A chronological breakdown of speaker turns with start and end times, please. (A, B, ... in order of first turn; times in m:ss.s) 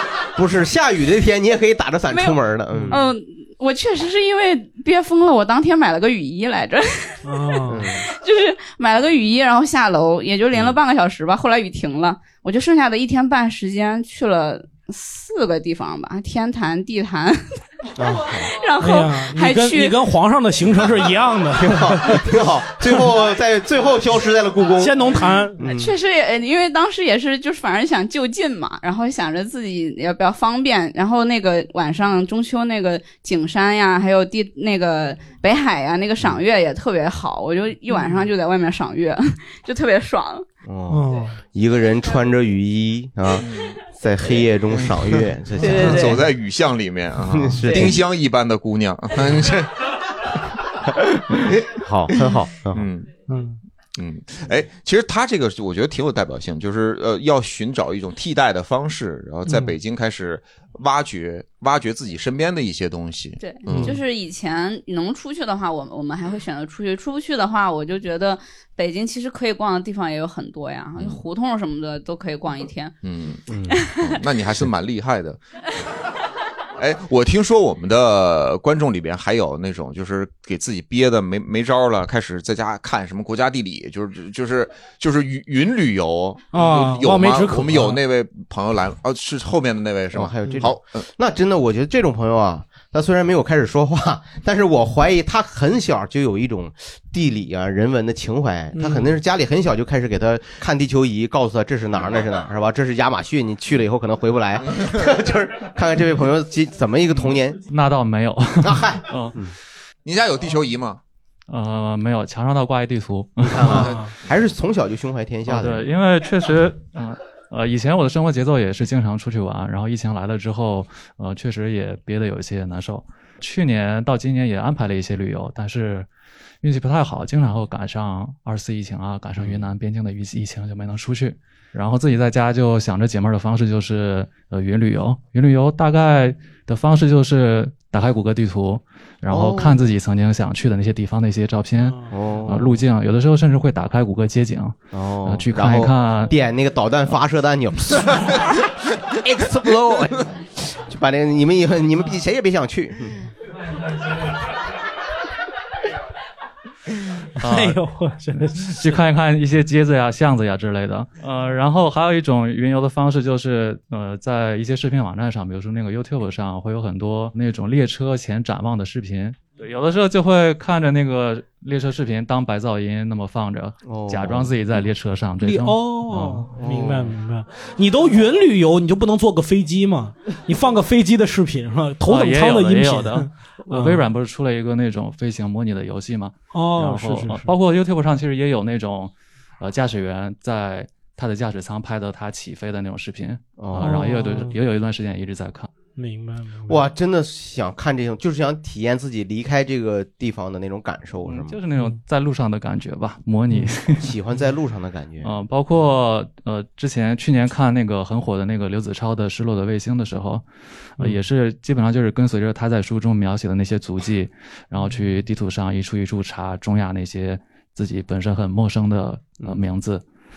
0:00.4-0:03.0 A
0:02.1-0:02.4 B
0:02.7-0:03.0 C
0:02.9-0:07.2 B
0:07.2-0:07.9 C
0:07.7-0:08.1 A
0:08.1-0:17.4 B
0:18.0-0:18.5 A
0:18.5-0:20.0 B
0:18.8-0:22.3 C
0:21.6-0:25.0 A
0:24.8-0:25.6 C
0:25.6-0:25.9 A
0:25.6-0:40.4 B
0:40.6-0:46.2 A
0:40.9-0:41.4 C
0:43.4-0:43.8 D
0:45.6-0:46.2 B
0:45.7-0:49.7 D
0:47.3-0:48.0 A
0:51.3-0:52.9 A
0:52.7-0:53.1 D
0:53.3-0:53.6 C
0:54.0-1:04.0 D
0:59.5-0:59.8 C
1:03.4-1:12.9 B
1:11.0-1:11.2 D
1:13.0-1:15.4 D
1:13.5-1:13.8 A
1:16.8-1:31.0 D
1:26.5-1:28.0 C
1:30.1-1:47.6 A
1:38.8-1:39.1 C
1:47.7-1:49.4 E
1:48.6-1:49.5 A
1:50.1-1:51.0 D
1:51.5-1:53.9 E
1:53.4-1:55.9 A
1:53.7-1:54.1 C
1:55.5-2:06.1 E
2:06.6-2:26.3 E
2:19.3-2:19.8 A
2:21.8-2:22.1 C
2:22.1-2:22.8 A
2:24.9-2:28.5 A
2:29.1-2:33.2 A
2:37.4-2:37.8 E
2:37.4-2:38.9 C
2:38.6-2:56.5 E
2:53.8-2:54.8 A
2:55.4-3:04.0 C
2:56.6-2:57.1 A
3:02.1-3:15.7 E
3:06.5-3:07.6 C
3:13.6-3:14.0 A
3:13.8-3:14.6 C
3:16.0-3:16.8 C
3:16.7-3:21.6 A
3:21.3-3:24.1 E
3:23.5-3:23.8 C
3:24.0-3:25.3 A
3:25.2-3:30.4 E
3:31.0-3:40.0 E